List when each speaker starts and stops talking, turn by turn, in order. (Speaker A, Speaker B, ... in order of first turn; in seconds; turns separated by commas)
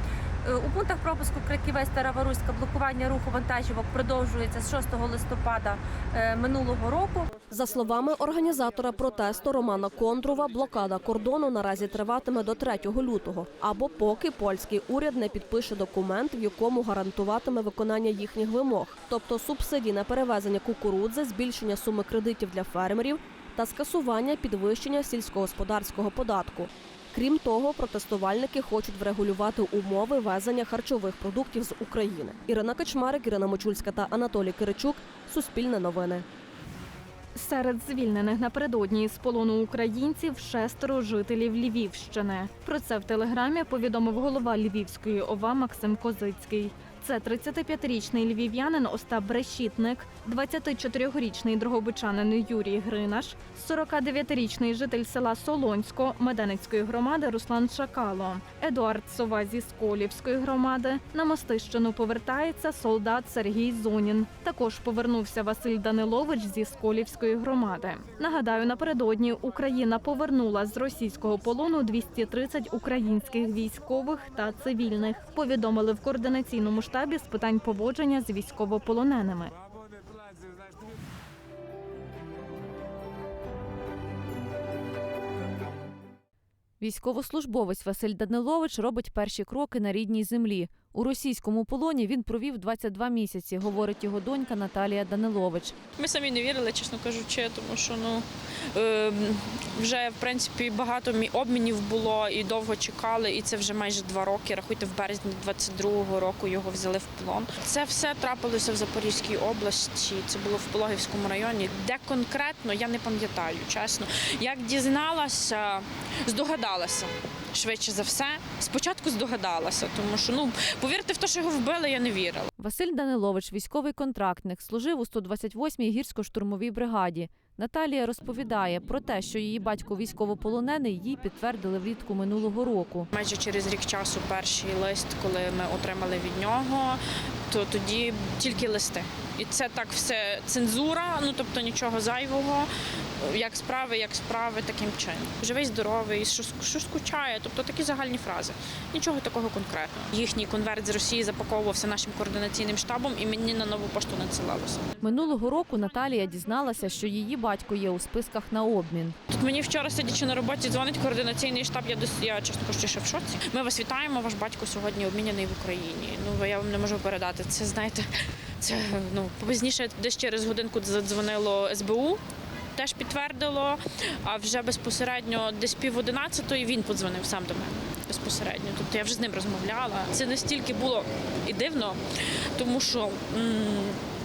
Speaker A: 0.5-7.4, Speaker B: 7.5-36.2, Speaker C: 37.4-79.5, Speaker D: 86.8-95.8, Speaker E: 96.0-122.5, Speaker D: 122.6-133.1, Speaker E: 133.1-137.0, Speaker E: 137.5-142.7, Speaker E: 143.2-154.9, Speaker D: 155.0-159.2, Speaker E: 159.3-168.1, Speaker E: 168.6-172.2, Speaker E: 172.8-182.0, Speaker E: 182.6-184.0